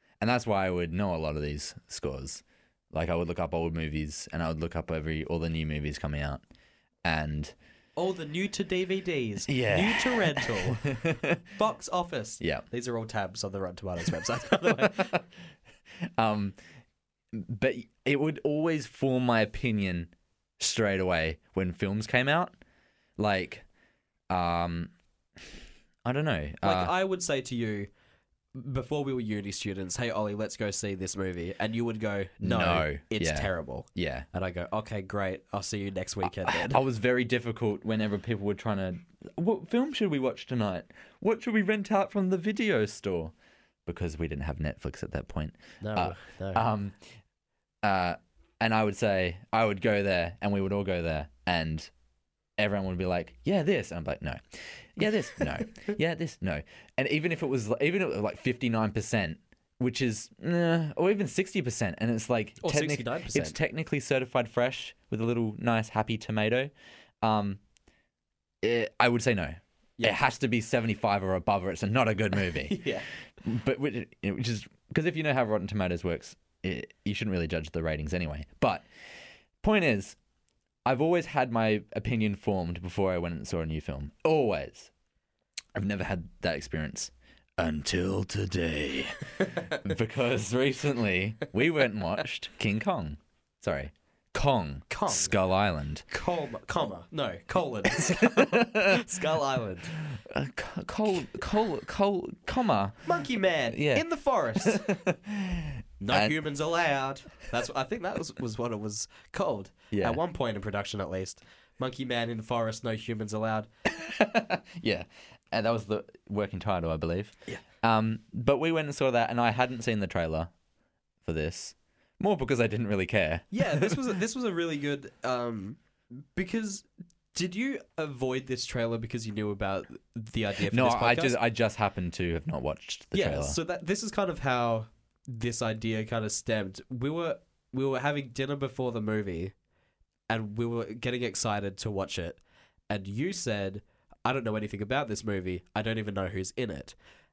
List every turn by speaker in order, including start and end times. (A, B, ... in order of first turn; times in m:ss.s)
0:00.2-0:06.4 A
0:07.0-0:07.5 A
0:08.0-0:15.2 B
0:09.5-0:11.4 A
0:12.4-0:12.7 A
0:16.2-0:16.6 A
0:17.3-0:22.6 A
0:23.2-0:23.6 A
0:24.3-0:24.9 A
0:26.0-0:26.9 A
0:26.6-0:27.9 B
0:28.5-0:36.8 B
0:32.4-0:34.2 A
0:36.3-0:43.3 A
0:43.9-0:47.0 A
0:45.8-0:46.6 B
0:47.8-0:51.9 A
0:52.6-1:06.7 A
1:02.6-1:03.6 B
1:07.2-1:07.6 A
1:08.6-1:12.8 A
1:12.4-1:13.1 B
1:13.4-1:18.9 A
1:19.6-1:20.2 A
1:20.9-1:24.9 A
1:25.8-1:36.1 A
1:34.9-1:35.4 B
1:36.1-1:39.9 B
1:38.0-1:39.1 A
1:40.1-1:43.0 A
1:43.0-1:44.9 B
1:43.7-1:44.0 A
1:44.6-1:46.4 A
1:46.0-1:53.7 B
1:49.9-1:50.2 A
1:53.9-2:00.5 A
2:01.2-2:04.0 A
2:03.5-2:11.4 B
2:10.7-2:13.6 A
2:13.1-2:19.5 B
2:20.3-2:27.0 B